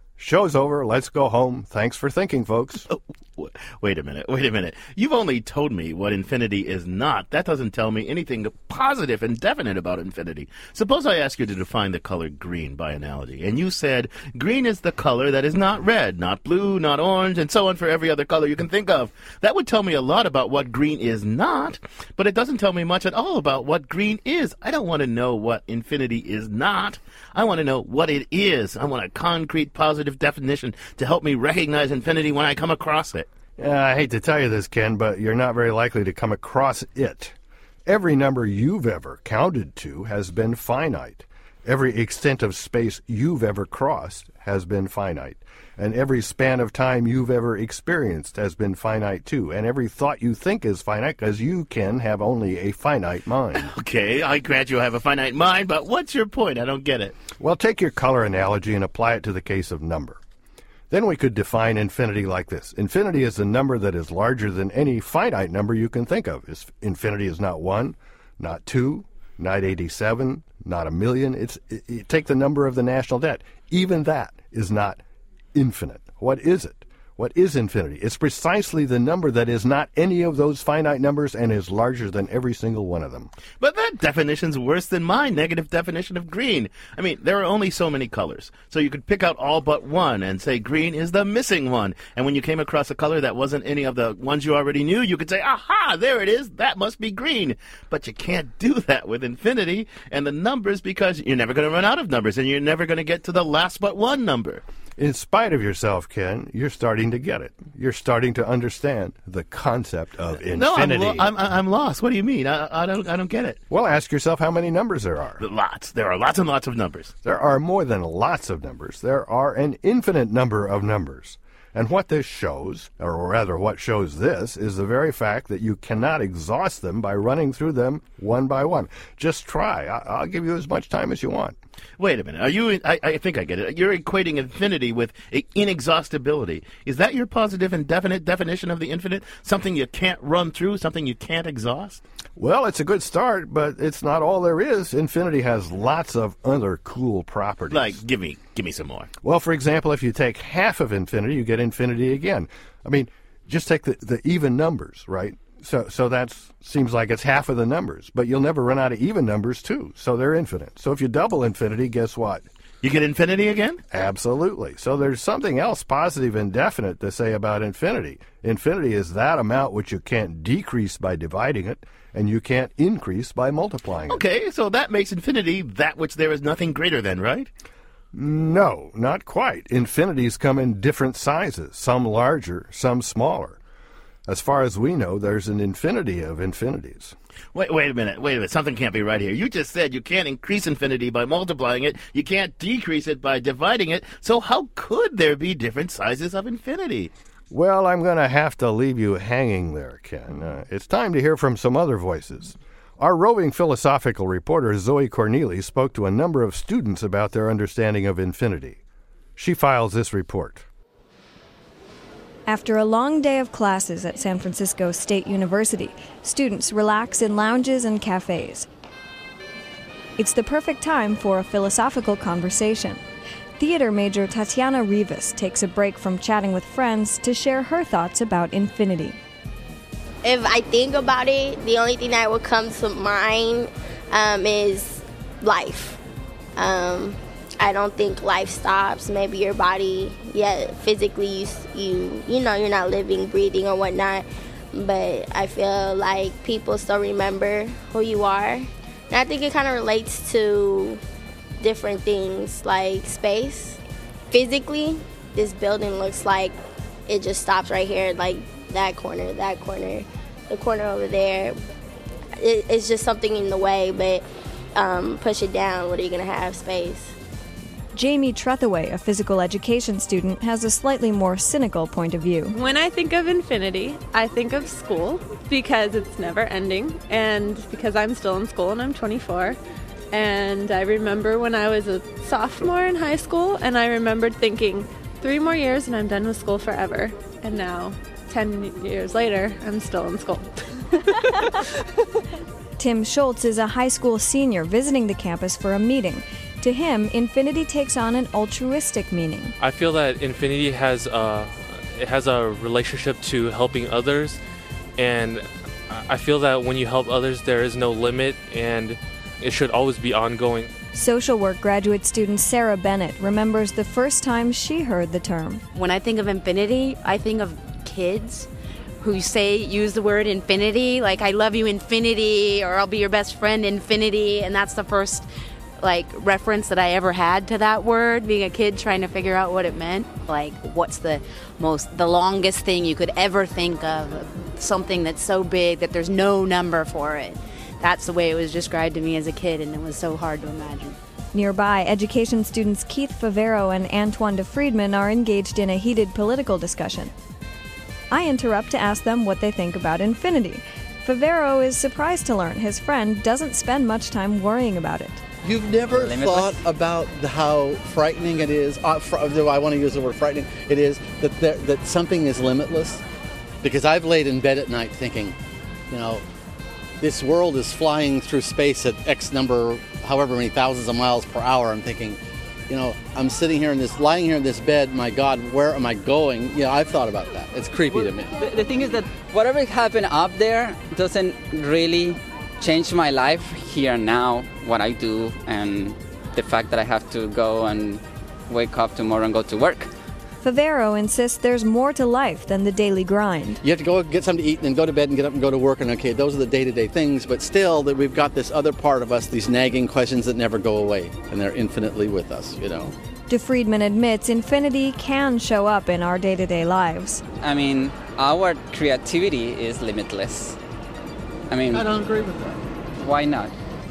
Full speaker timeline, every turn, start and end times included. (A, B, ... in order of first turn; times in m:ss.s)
0:00.2-0:02.9 A
0:02.9-0:33.3 B
0:33.6-0:37.3 A
0:37.9-0:53.7 A
0:53.6-0:57.2 B
0:57.4-1:00.2 A
1:00.9-1:15.0 A
1:15.6-1:23.3 A
1:23.6-1:44.6 B
1:45.0-1:51.3 A
1:50.6-1:53.6 B
1:53.7-1:55.4 A
1:55.4-1:57.1 B
1:57.2-2:11.6 A
2:12.0-2:22.0 B
2:22.4-2:28.0 A
2:27.7-2:29.1 B
2:29.2-2:42.4 A
2:42.8-2:43.8 B
2:43.9-2:54.2 A
2:54.1-2:57.5 B
2:58.1-3:03.6 A
3:04.3-3:07.2 A
3:07.5-3:17.1 B
3:17.5-3:28.8 A
3:29.4-3:30.7 A
3:32.5-3:38.7 C
3:40.2-3:43.0 C
3:43.6-3:49.2 C
3:50.2-3:56.0 D
3:56.6-4:11.0 D
4:11.6-4:13.8 D
4:14.3-4:16.6 D
4:17.1-4:21.6 D
4:22.4-4:24.2 D
4:24.8-4:27.1 D
4:27.9-4:32.6 C
4:32.5-4:39.6 E
4:40.1-4:51.1 E
4:52.8-4:59.5 C
4:59.6-5:04.4 F
5:05.0-5:10.7 F
5:10.9-5:15.6 C
5:15.7-5:18.5 G
5:19.0-5:25.3 G
5:25.8-5:41.0 G
5:41.3-5:47.1 C
5:48.1-5:55.2 C
5:55.4-6:03.0 H
5:55.9-5:56.6 I
6:03.6-6:05.4 H
6:05.9-6:06.2 H
6:07.0-6:18.3 H
6:18.4-6:29.9 I
6:30.4-6:33.6 C
6:33.5-6:43.0 H
6:43.3-6:47.2 C
6:47.4-6:50.6 I
6:51.5-6:51.9 I
6:51.7-6:52.6 H
6:53.0-6:53.5 I